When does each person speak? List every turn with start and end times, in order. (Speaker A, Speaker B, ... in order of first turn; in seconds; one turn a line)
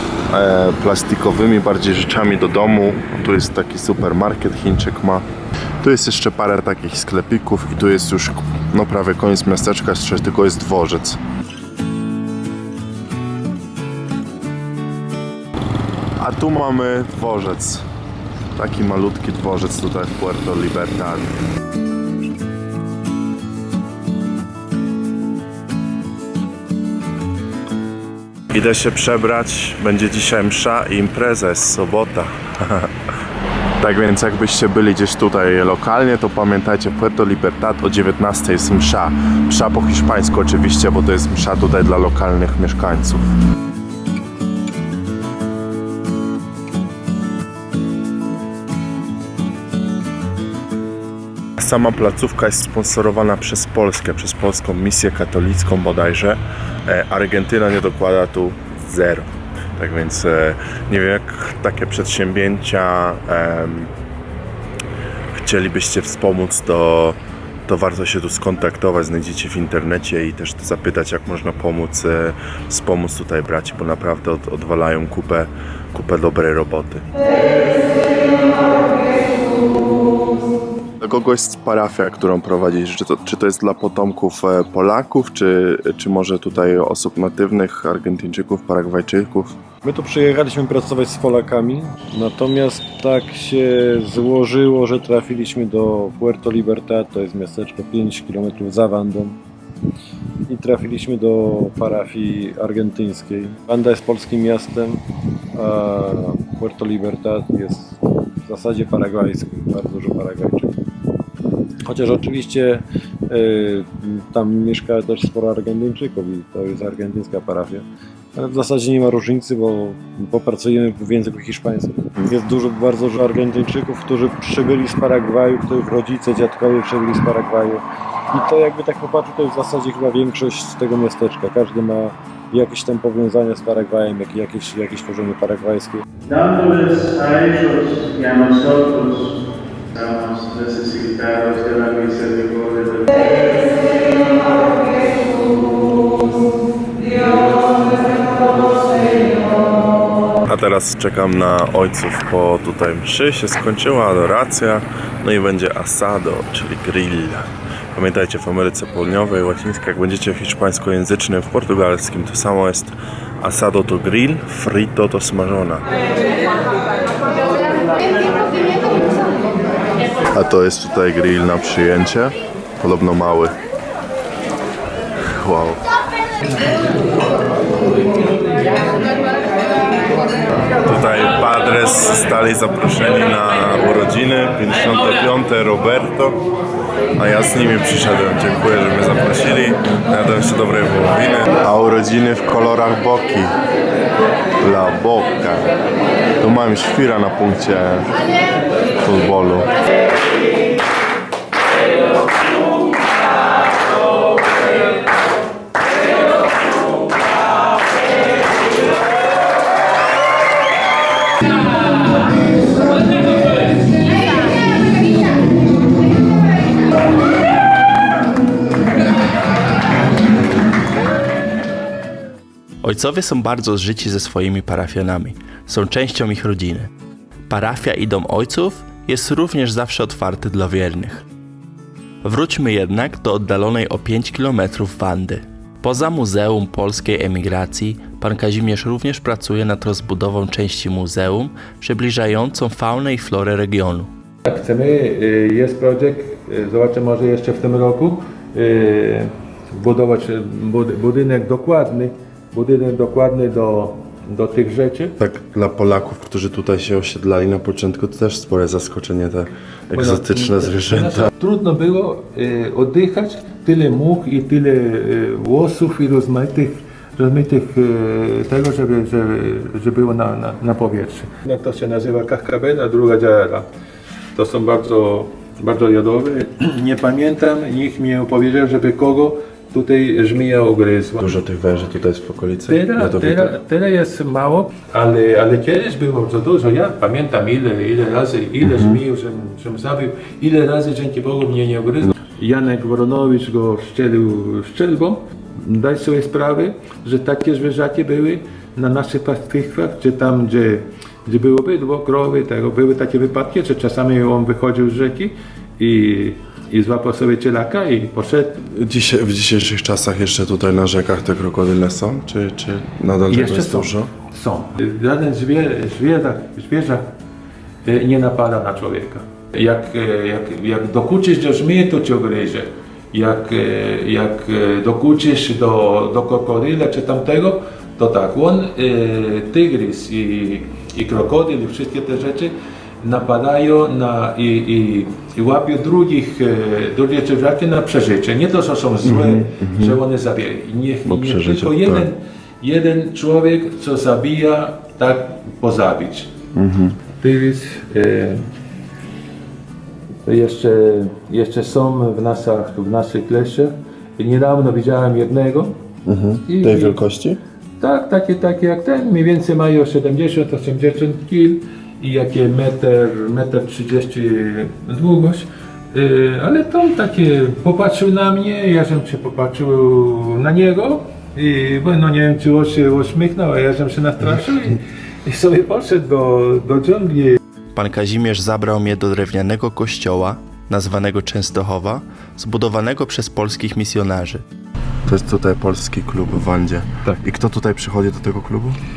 Speaker A: 0.3-5.3
Speaker A: 5.8-11.2
Speaker A: 16.2-17.8
Speaker A: 18.6-21.4
Speaker A: 28.5-32.9
Speaker A: 33.8-43.3
Speaker A: 51.6-63.9
Speaker A: 65.3-77.1
Speaker A: 81.0-89.5
Speaker B: 89.8-99.4
Speaker B: 100.5-110.8
Speaker B: 111.8-136.0
Speaker C: 136.2-145.4
Speaker C: 147.0-149.6
Speaker A: 150.4-165.9
Speaker A: 170.3-173.5
Speaker A: 175.2-175.8
Speaker A: 180.8-186.4
Speaker A: 187.2-193.6
Speaker A: 194.6-195.7
Speaker A: 196.4-198.2
Speaker A: 199.0-199.7
Speaker D: 222.8-226.9
Speaker D: 227.5-231.2
Speaker D: 232.2-244.1
Speaker E: 244.4-255.2
Speaker A: 255.2-261.3
Speaker E: 259.9-273.7
Speaker E: 274.3-281.3
Speaker A: 281.2-283.5
Speaker E: 282.7-308.6
Speaker A: 288.6-289.0
Speaker A: 308.6-314.1
Speaker E: 313.3-317.1
Speaker E: 317.8-346.3
Speaker A: 339.0-340.0
Speaker A: 341.0-342.1
Speaker A: 346.5-347.0
Speaker E: 347.2-348.4
Speaker E: 350.2-355.8
Speaker A: 356.1-357.4
Speaker E: 356.4-357.0
Speaker E: 357.8-377.4
Speaker D: 377.7-384.4
Speaker A: 385.0-388.8